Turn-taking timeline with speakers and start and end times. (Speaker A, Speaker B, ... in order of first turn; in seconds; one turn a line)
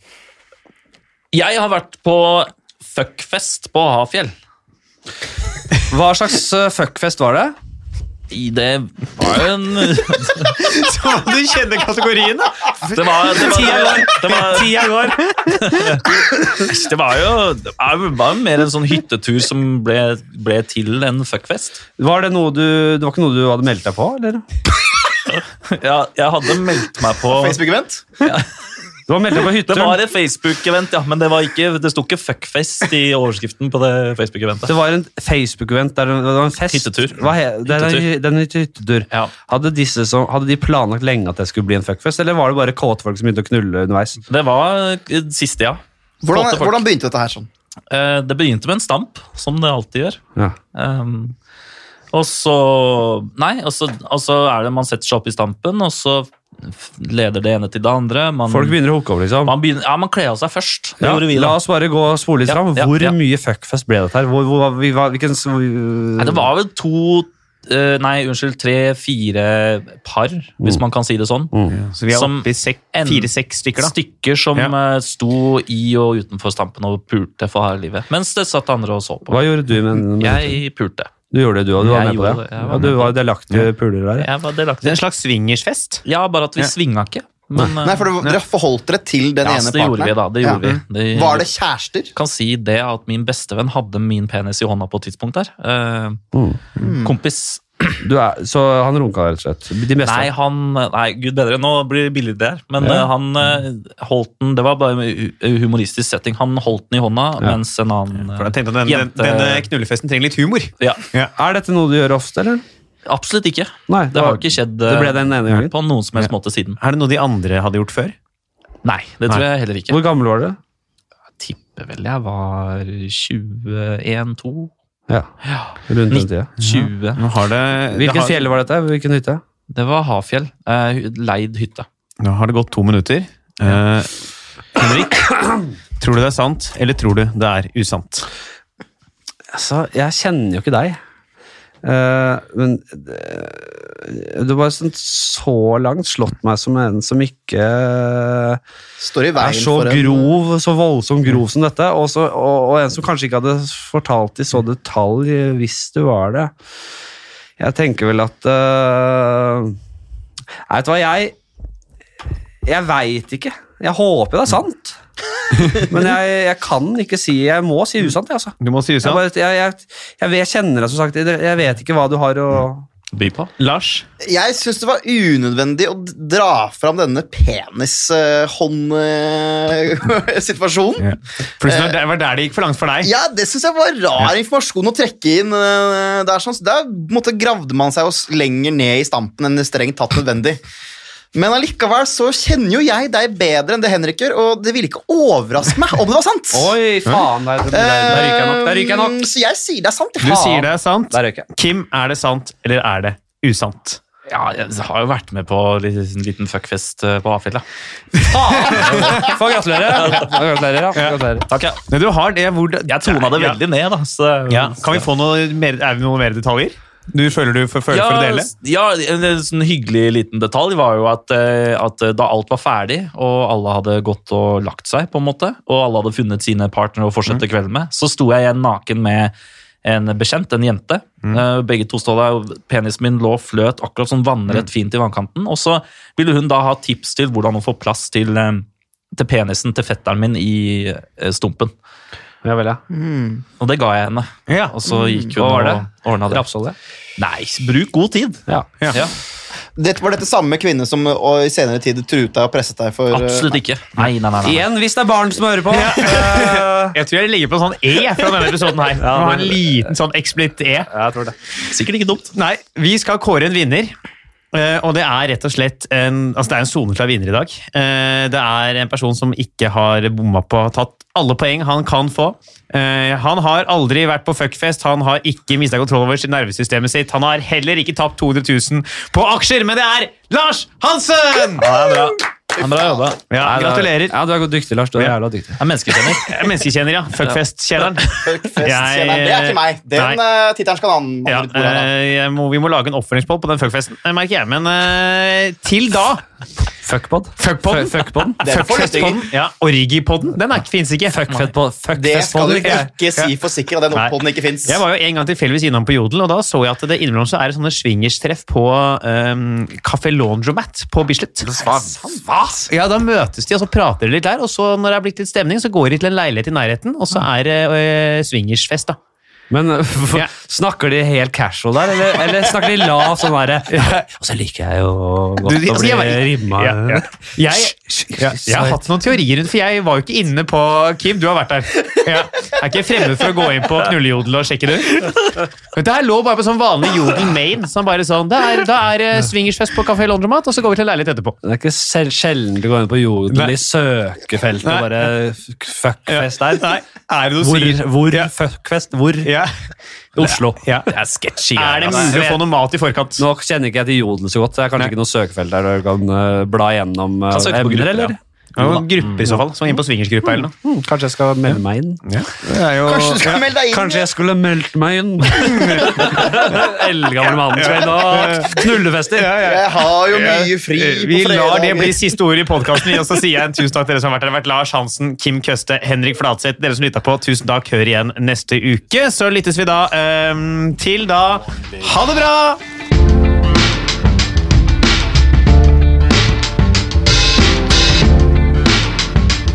Speaker A: 1.3-4.3
Speaker B: 5.9-7.5
Speaker A: 8.3-10.5
Speaker C: 10.6-12.7
Speaker B: 12.8-15.3
Speaker A: 12.9-14.9
Speaker C: 15.4-16.0
Speaker A: 15.5-21.8
Speaker B: 22.0-24.4
Speaker A: 25.3-27.6
Speaker D: 27.3-28.0
Speaker B: 29.1-30.0
Speaker A: 29.4-34.7
Speaker B: 34.6-44.2
Speaker A: 36.7-38.0
Speaker A: 44.3-46.8
Speaker D: 46.2-47.5
Speaker A: 47.9-50.2
Speaker A: 50.7-51.3
Speaker A: 52.1-58.8
Speaker B: 58.5-59.5
Speaker A: 59.4-61.6
Speaker B: 61.0-66.5
Speaker A: 62.5-63.1
Speaker A: 66.2-71.5
Speaker C: 71.7-73.9
Speaker A: 72.1-81.1
Speaker B: 79.3-80.6
Speaker B: 81.3-84.3
Speaker A: 81.8-83.1
Speaker A: 84.2-85.0
Speaker C: 84.8-86.0
Speaker A: 86.0-88.1
Speaker D: 87.8-92.1
Speaker A: 89.4-91.5
Speaker A: 92.1-96.2
Speaker B: 96.3-96.6
Speaker A: 96.8-98.0
Speaker D: 96.8-97.2
Speaker B: 98.0-100.3
Speaker A: 100.0-109.7
Speaker B: 102.8-103.1
Speaker C: 108.3-111.3
Speaker B: 111.3-112.6
Speaker A: 113.0-116.8
Speaker B: 113.9-115.7
Speaker C: 116.8-118.1
Speaker A: 118.8-120.0
Speaker B: 119.9-120.6
Speaker A: 121.4-124.7
Speaker A: 125.4-127.2
Speaker B: 125.9-126.5
Speaker C: 126.6-128.4
Speaker B: 127.9-129.4
Speaker A: 129.7-131.8
Speaker C: 132.2-134.2
Speaker C: 134.7-138.2
Speaker B: 139.5-141.0
Speaker B: 141.8-148.6
Speaker D: 149.0-150.3
Speaker B: 149.3-156.5
Speaker B: 157.6-159.8
Speaker B: 160.7-161.3
Speaker B: 162.6-165.0
Speaker B: 165.7-172.9
Speaker C: 168.6-169.2
Speaker A: 173.1-173.5
Speaker C: 173.6-174.1
Speaker D: 174.2-182.0
Speaker C: 181.0-183.1
Speaker D: 183.0-190.6
Speaker D: 191.3-196.7
Speaker B: 196.5-199.3
Speaker D: 197.7-200.5
Speaker C: 200.2-204.0
Speaker B: 200.2-201.5
Speaker A: 204.3-207.6
Speaker B: 208.3-211.4
Speaker C: 208.7-209.1
Speaker A: 210.0-210.4
Speaker A: 211.5-211.8
Speaker C: 211.9-213.6
Speaker A: 212.9-215.1
Speaker C: 214.5-218.5
Speaker A: 217.9-229.3
Speaker A: 229.8-241.7
Speaker B: 242.4-242.8
Speaker D: 242.9-243.4
Speaker A: 243.6-246.5
Speaker C: 244.5-244.8
Speaker B: 245.4-246.7
Speaker A: 247.2-249.1
Speaker D: 249.8-253.6
Speaker A: 253.1-254.7
Speaker B: 254.4-257.0
Speaker C: 255.7-260.9
Speaker B: 259.0-259.8
Speaker B: 260.9-261.3
Speaker A: 261.7-262.3
Speaker C: 262.3-263.9
Speaker C: 264.5-281.7
Speaker A: 281.6-283.2
Speaker C: 283.3-284.1
Speaker B: 283.4-285.6
Speaker A: 285.6-286.4
Speaker C: 286.1-290.2
Speaker D: 288.2-291.9
Speaker C: 291.3-296.2
Speaker B: 296.8-298.4
Speaker C: 297.4-301.3
Speaker D: 298.4-299.3
Speaker B: 301.1-302.9
Speaker D: 301.9-304.8
Speaker C: 302.6-303.3
Speaker C: 303.9-311.7
Speaker B: 311.4-312.7
Speaker C: 312.7-319.0
Speaker B: 319.5-328.8
Speaker C: 323.7-324.0
Speaker C: 325.4-341.4
Speaker B: 341.4-346.7
Speaker C: 344.6-345.1
Speaker C: 346.1-348.3
Speaker B: 347.4-349.3
Speaker C: 349.2-349.5
Speaker B: 350.1-350.7
Speaker C: 350.6-350.9
Speaker A: 350.9-352.3
Speaker C: 351.6-353.2
Speaker B: 351.9-352.4
Speaker B: 353.2-358.2
Speaker A: 357.3-359.4
Speaker C: 358.6-360.5
Speaker B: 360.5-362.0
Speaker C: 362.1-363.4
Speaker D: 362.8-364.1
Speaker B: 363.7-369.4
Speaker C: 365.3-366.6
Speaker C: 367.5-382.6
Speaker D: 369.4-372.2